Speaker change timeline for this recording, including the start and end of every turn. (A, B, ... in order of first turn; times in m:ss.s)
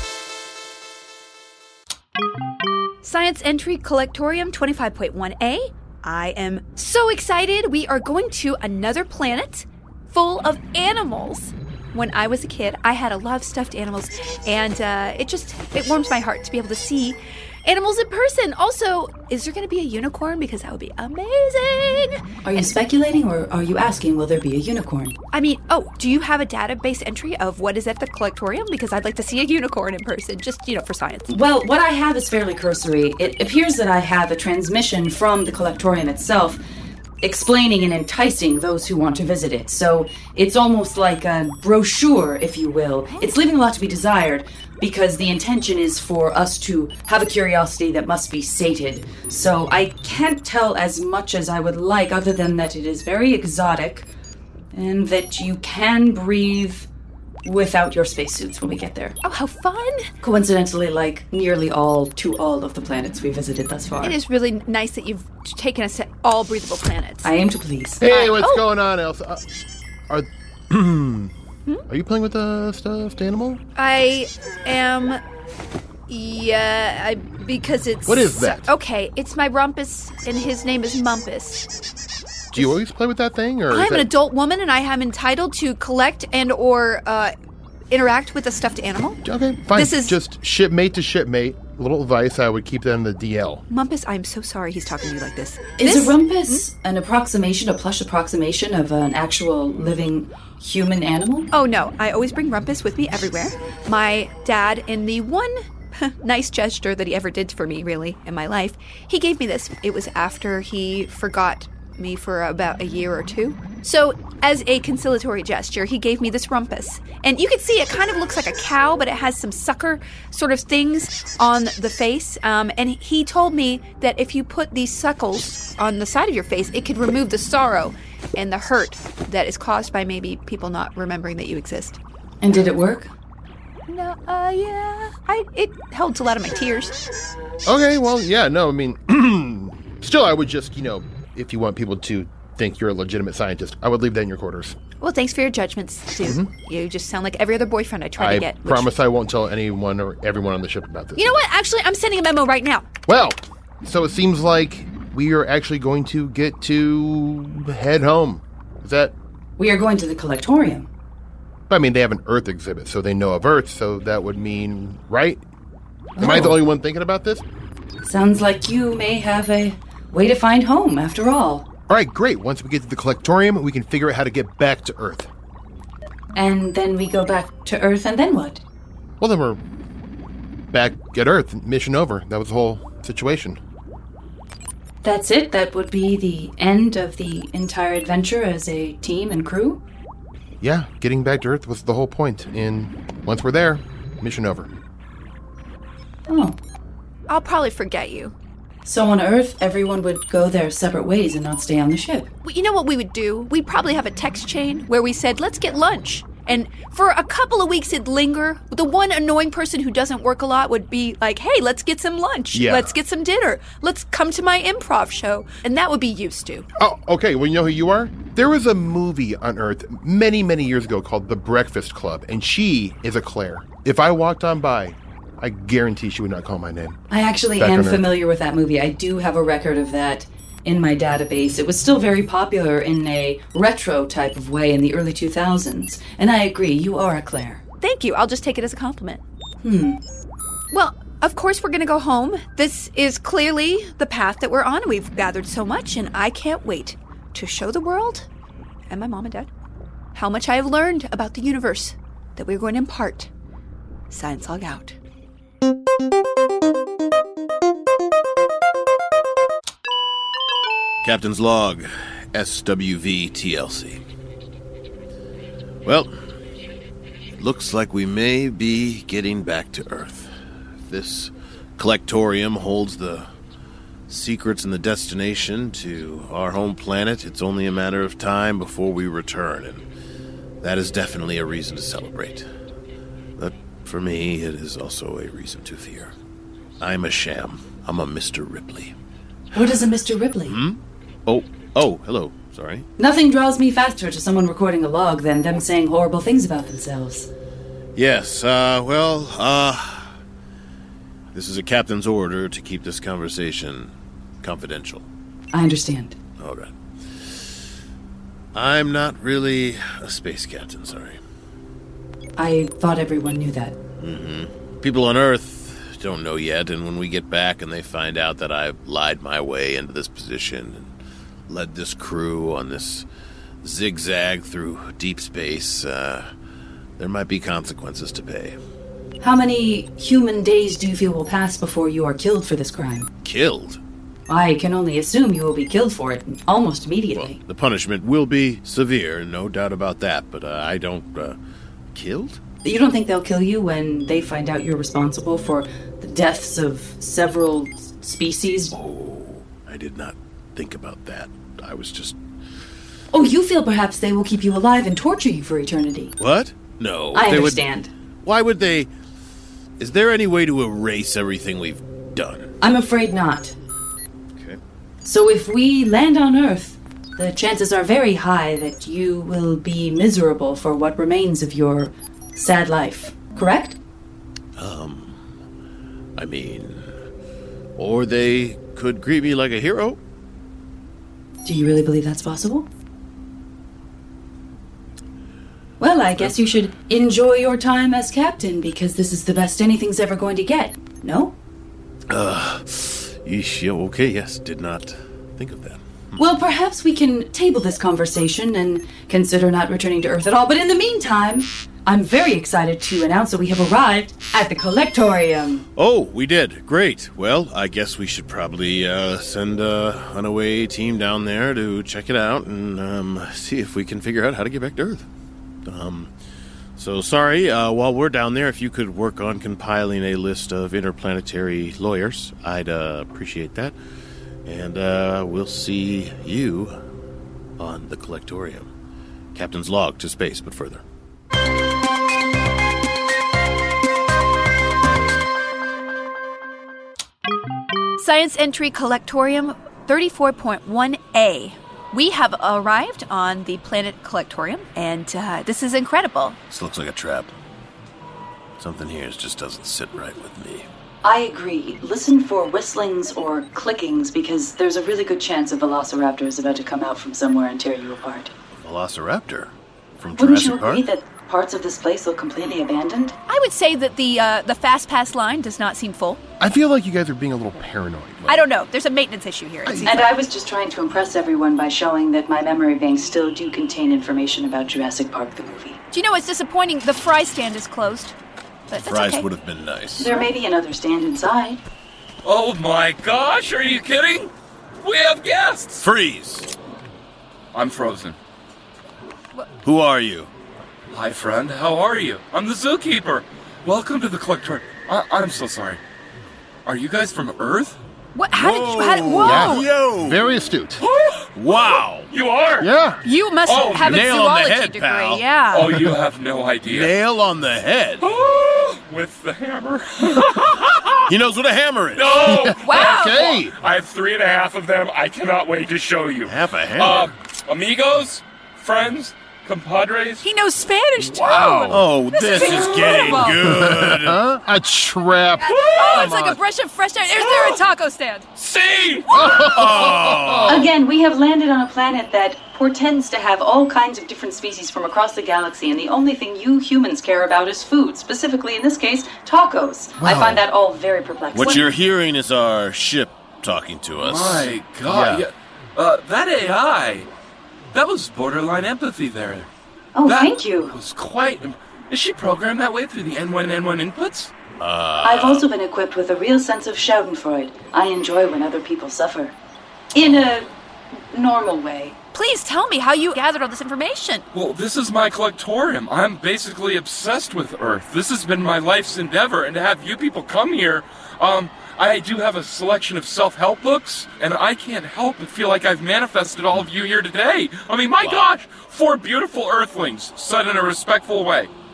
0:03.0-0:22.7 A
0:22.4-0:25.2 B
0:25.3-0:31.3 A
0:31.3-0:36.6 B
0:37.2-0:54.1 B
0:54.7-0:56.9 B
0:57.4-0:59.2 B
0:59.2-1:00.1 A
1:00.2-1:04.2 B
1:04.0-1:07.3 A
1:07.2-1:08.0 B
1:08.0-1:09.4 C
1:08.0-1:08.6 A
1:10.1-1:11.3 C
1:11.9-1:13.6 C
1:13.8-1:15.2 A
1:16.1-1:21.7 A
1:18.1-1:18.7 C
1:22.5-1:24.1 C
1:23.7-1:27.3 A
1:27.9-1:29.2 A
1:29.2-1:33.6 C
1:29.7-1:30.2 A
1:33.7-1:36.6 A
1:35.8-1:41.5 B
1:41.5-2:12.0 A
2:12.4-2:13.1 B
2:13.9-2:17.0 A
2:17.6-2:24.8 C
2:25.0-2:28.9 A
2:26.2-2:26.5 C
2:28.2-2:31.4 C
2:31.2-2:32.8 A
2:33.1-2:39.1 C
2:39.6-2:40.9 B
2:41.7-2:45.4 C
2:46.2-2:46.6 B
2:46.2-2:47.4 C
2:48.0-2:51.7 B
2:51.9-2:55.3 C
2:56.4-2:58.6 B
2:59.2-2:59.6 C
3:00.7-3:03.6 C
3:05.0-3:09.8 B
3:10.6-3:14.7 C
3:16.3-3:16.6 B
3:17.3-3:18.3 A
3:18.8-3:22.3 B
3:22.4-3:36.7 A
3:32.5-3:33.0 C
3:36.8-3:47.0 C
3:47.1-3:57.6 B
3:47.6-3:48.1 C
3:57.8-3:59.2 A
3:59.6-4:00.0 B
4:00.7-4:08.3 A
4:08.9-4:09.5 A
4:10.1-4:13.3 A
4:14.1-4:15.0 A
4:21.0-4:24.0 D
4:25.8-4:26.1 D
4:27.4-4:30.3 D
4:30.9-4:33.3 D
4:34.1-4:39.8 D
4:40.6-4:42.5 D
4:43.4-4:46.1 D
4:46.8-4:49.0 D
4:49.5-4:50.6 B
4:50.5-4:52.9 D
4:53.0-4:57.3 B
4:58.0-5:00.1 D
5:01.3-5:05.0 D
5:05.5-5:06.2 B
5:06.4-5:07.4 D
5:08.5-5:11.2 D
5:12.4-5:13.8 B
5:14.0-5:20.9 D
5:21.5-5:23.0 D
5:23.6-5:26.3 D
5:27.0-5:28.6 D
5:29.2-5:33.1 B
5:33.2-5:33.8 D
5:34.3-5:37.4 B
5:37.1-5:41.4 D
5:41.9-5:42.4 D
5:42.6-5:48.8 B
5:48.7-5:52.2 D
5:53.1-5:56.2 B
5:56.2-5:57.6 D
5:57.1-5:57.9 B
5:58.2-5:58.9 D
5:59.8-6:02.5 D
6:02.6-6:03.5 B
6:04.4-6:04.6 D
6:05.0-6:13.8 B
6:14.6-6:15.2 D
6:16.2-6:17.0 D
6:17.8-6:20.0 D
6:21.4-6:22.7 B
6:25.8-6:31.4 B
6:32.1-6:36.2 D
6:36.2-6:45.6 B
6:45.8-6:55.1 D
6:55.6-6:56.1 D
6:56.8-7:03.8 D
7:04.4-7:06.8 D
7:07.6-7:08.7 D
7:09.3-7:10.8 D
7:18.0-7:26.4 A
7:26.5-7:27.3 D
7:28.6-7:30.7 D
7:31.0-7:38.3 B
7:38.5-7:40.8 D
7:40.2-7:43.2 B
7:43.3-7:46.2 A
7:46.4-7:48.4 C
7:48.2-7:50.1 A
7:49.6-7:50.1 C
7:49.8-7:55.8 B
7:55.9-7:58.2 A
7:58.7-7:59.3 A
7:58.8-8:00.1 D
8:00.0-8:01.6 B
8:02.2-8:04.3 E
8:04.8-8:05.8 E
8:05.8-8:06.5 D
8:07.5-8:08.2 E
8:09.6-8:10.3 D
8:10.9-8:15.8 E
8:16.6-8:17.8 E
8:18.1-8:19.7 A
8:18.3-8:20.2 D
8:19.2-8:20.8 C
8:20.8-8:22.7 E
8:21.4-8:22.1 D
8:22.6-8:23.0 C
8:23.0-8:25.8 A
8:23.5-8:24.1 E
8:23.8-8:25.9 D
8:25.5-8:26.9 E
8:26.7-8:28.1 D
8:28.0-8:31.1 E
8:31.1-8:32.3 D
8:32.0-8:40.2 E
8:32.2-8:33.5 C
8:32.6-8:33.3 A
8:36.2-8:37.1 D
8:40.2-8:43.4 A
8:41.2-8:41.8 C
8:41.7-8:44.2 D
8:42.3-8:43.3 E
8:43.4-8:46.4 C
8:45.4-8:48.2 A
8:45.4-8:46.2 E
8:48.4-8:50.4 E
8:49.1-8:50.3 C
8:49.2-8:50.7 D
8:50.5-9:01.6 B
9:00.0-9:00.4 C
9:01.3-9:05.2 D
9:04.0-9:07.1 E
9:07.7-9:09.5 E
9:10.0-9:10.8 B
9:10.0-9:14.3 E
9:14.6-9:15.5 D
9:15.0-9:19.4 B
9:19.9-9:20.5 B
9:21.0-9:22.0 B
9:22.1-9:24.2 A
9:24.3-9:41.5 E
9:38.0-9:38.3 D